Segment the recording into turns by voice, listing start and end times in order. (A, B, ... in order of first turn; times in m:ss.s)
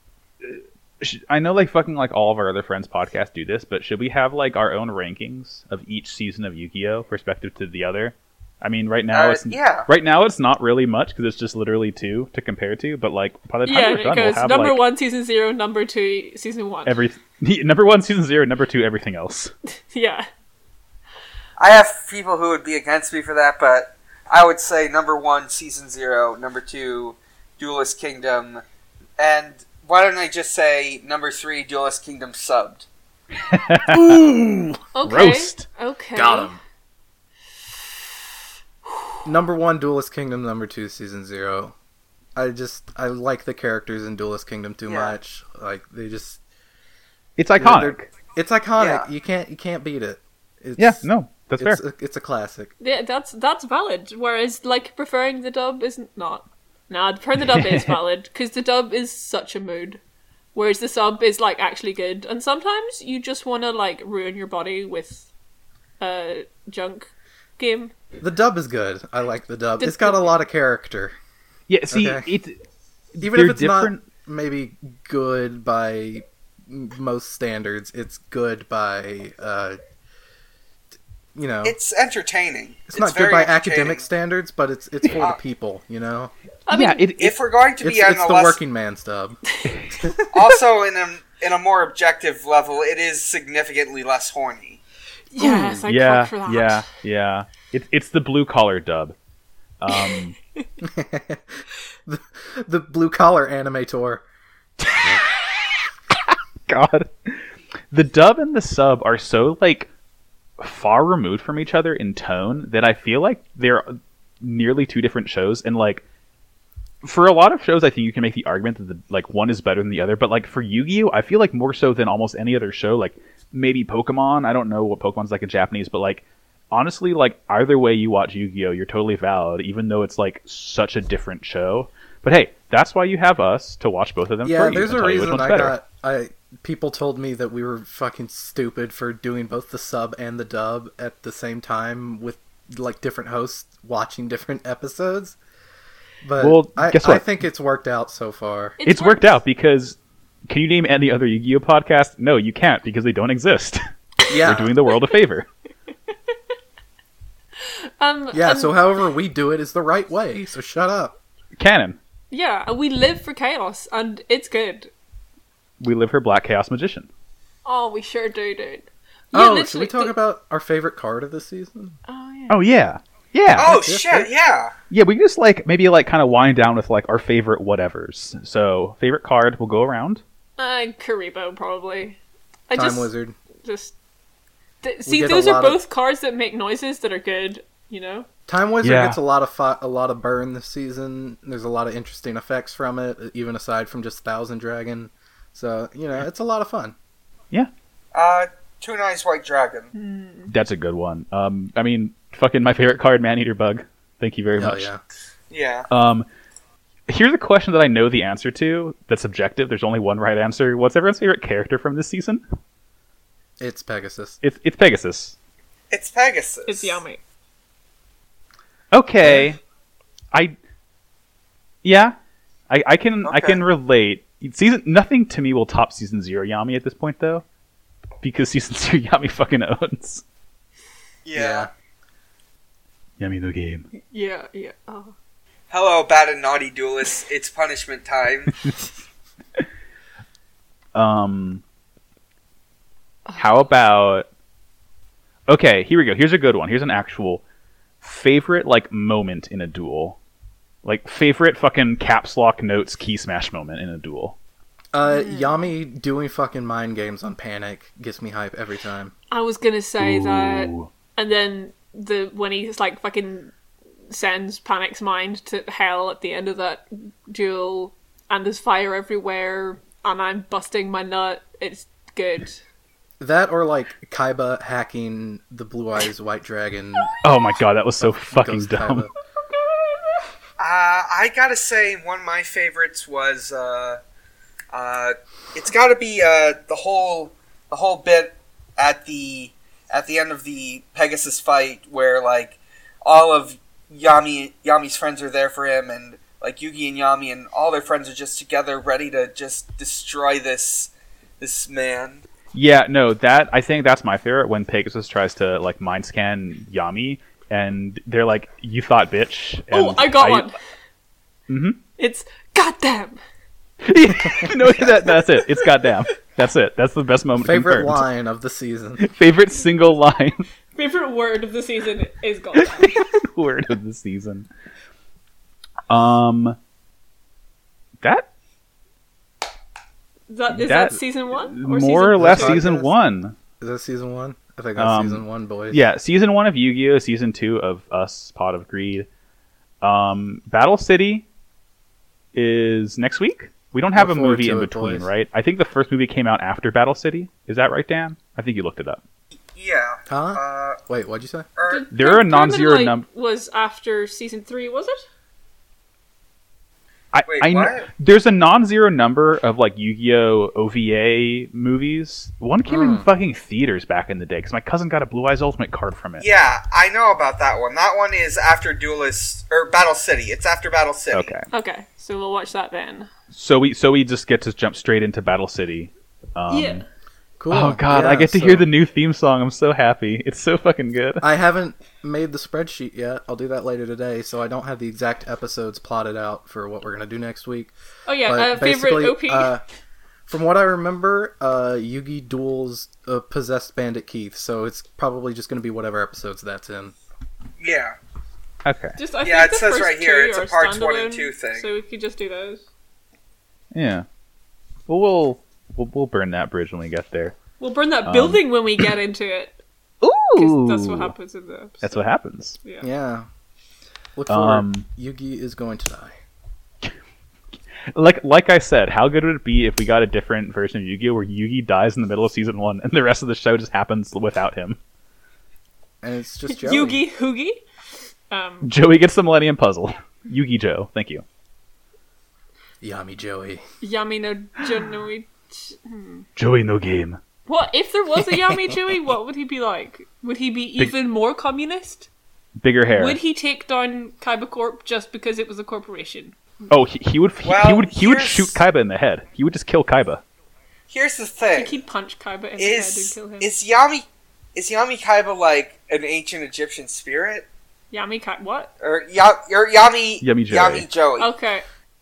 0:00.4-0:14.8 A
0:09.1-0:09.9 B
0:13.6-0:17.0 C
0:16.9-0:19.5 A
0:19.9-0:20.3 C
0:21.6-0:28.6 B
0:29.2-0:32.9 B
0:33.4-0:35.6 A
0:33.9-0:34.6 D
0:35.0-0:36.5 C
0:36.2-0:36.6 D
0:39.2-0:41.8 D
0:42.4-0:46.4 D
0:44.9-0:45.2 B
0:47.4-0:48.1 A
0:47.6-0:51.1 D
0:48.8-0:49.1 B
0:50.8-0:51.8 A
0:51.6-0:52.7 D
0:52.8-1:00.0 C
0:57.5-0:58.0 A
1:00.5-1:05.3 C
1:06.0-1:07.9 C
1:08.2-1:11.2 D
1:09.8-1:10.4 C
1:11.7-1:12.6 A
1:11.9-1:12.3 D
1:13.2-1:14.0 A
1:13.2-1:19.8 D
1:21.4-1:21.8 D
1:21.6-1:24.0 B
1:22.9-1:26.3 D
1:26.7-1:27.0 C
1:26.7-1:27.4 A
1:27.2-1:28.6 B
1:27.8-1:29.4 D
1:30.0-1:30.3 D
1:30.3-1:34.8 B
1:35.3-1:36.8 C
1:35.4-1:35.8 D
1:35.9-1:39.2 A
1:39.8-1:40.4 A
1:39.9-1:40.2 C
1:40.8-1:44.2 D
1:44.8-1:45.5 A
1:46.1-1:49.9 A
1:50.6-1:56.0 A
1:57.0-2:15.8 A
2:14.4-2:25.4 D
2:26.2-2:28.8 D
2:26.4-2:27.3 A
2:28.8-2:29.4 C
2:28.8-2:30.0 A
2:30.5-2:35.5 A
2:34.3-2:34.8 D
2:37.6-2:38.8 C
2:38.3-2:41.2 D
2:41.6-2:42.0 A
2:42.3-2:44.9 C
2:45.8-2:47.1 A
2:47.6-2:50.2 C
2:49.3-2:52.0 D
2:52.1-2:52.7 C
2:52.5-2:54.1 A
2:53.5-2:54.7 B
2:53.6-2:54.3 D
2:54.9-3:00.2 A
3:00.6-3:03.1 C
3:02.7-3:03.4 D
3:03.6-3:03.9 C
3:04.8-3:08.3 C
3:05.1-3:05.8 D
3:08.5-3:17.0 D
3:08.8-3:09.2 A
3:18.1-3:19.9 B
3:19.9-3:20.5 C
3:20.5-3:24.9 A
3:24.6-3:25.0 D
3:25.5-3:25.9 B
3:25.9-3:26.3 A
3:27.1-3:32.4 A
3:33.6-3:34.4 D
3:34.4-3:35.4 A
3:35.9-3:37.0 B
3:36.7-3:37.2 C
3:38.9-3:39.6 A
3:39.2-3:39.5 D
3:41.8-3:42.2 A
3:42.7-3:47.4 A
3:43.2-3:43.6 B
3:48.2-3:50.2 A
3:51.2-3:51.7 B
3:51.3-3:51.7 D
3:53.2-3:53.9 A
3:54.0-3:55.1 C
3:55.7-3:58.6 B
4:01.0-4:01.6 A
4:03.3-4:03.6 C
4:03.4-4:04.3 A
4:05.5-4:07.4 A
4:08.0-4:10.2 A
4:10.8-4:14.4 A
4:14.9-4:19.1 D
4:15.1-4:15.6 C
4:19.3-4:23.5 C
4:20.0-4:20.9 A
4:24.1-4:32.6 C
4:33.2-4:37.1 D
4:37.2-4:39.1 A
4:38.0-4:39.1 D
4:40.6-4:44.0 B
4:44.7-5:02.2 B
5:02.5-5:10.5 A
5:09.7-5:10.6 C
5:11.5-5:11.8 A
5:12.0-5:13.2 C
5:13.8-5:18.1 A
5:14.9-5:15.9 C
5:17.4-5:19.1 D
5:19.0-5:20.4 A
5:20.8-5:23.1 C
5:22.6-5:24.5 A
5:25.9-5:26.6 A
5:30.3-5:32.6 C
5:30.5-5:33.4 A
5:32.2-5:32.9 D
5:33.6-5:35.8 D
5:34.8-5:39.1 A
5:39.8-5:41.3 A
5:42.3-5:49.0 A
5:44.0-5:45.1 D
5:49.4-5:50.8 B
5:50.1-5:51.5 D
5:51.6-5:51.9 B
5:51.7-5:55.0 C
5:51.9-5:53.0 A
5:57.1-6:06.3 A
5:57.3-5:57.9 B
6:02.7-6:03.1 D
6:06.2-6:11.3 B
6:11.1-6:11.5 A
6:11.5-6:13.1 C
6:13.3-6:16.8 A
6:16.5-6:16.8 C
6:17.4-6:18.7 D
6:17.5-6:21.2 A
6:21.2-6:27.7 D
6:28.1-6:29.5 C
6:28.3-6:29.6 D
6:30.3-6:36.9 D
6:37.6-6:38.0 B
6:38.6-6:39.0 A
6:39.0-6:42.6 C
6:39.2-6:41.7 B
6:43.7-6:44.1 A
6:44.9-6:47.4 A
6:47.6-6:49.6 C
6:48.1-6:48.9 A
6:50.0-6:51.1 A
6:50.4-6:52.1 C
6:51.8-6:52.6 A
6:52.6-6:52.9 C
6:52.8-6:53.3 D
6:54.2-6:56.2 D
6:54.3-6:54.9 A
6:57.9-7:04.8 A
7:06.0-7:07.0 D
7:06.5-7:07.6 C
7:08.3-7:08.7 C
7:08.6-7:11.2 A
7:12.8-7:13.6 D
7:13.8-7:16.3 C
7:16.4-7:17.2 A
7:17.5-7:22.1 C
7:22.6-7:23.2 A
7:22.9-7:26.4 C
7:26.7-7:30.2 A
7:27.4-7:28.6 B
7:30.9-7:31.8 B
7:31.5-7:33.5 C
7:32.6-7:37.5 B
7:37.9-7:38.7 C
7:38.8-7:41.3 B
7:40.2-7:40.9 A
7:41.2-7:41.7 C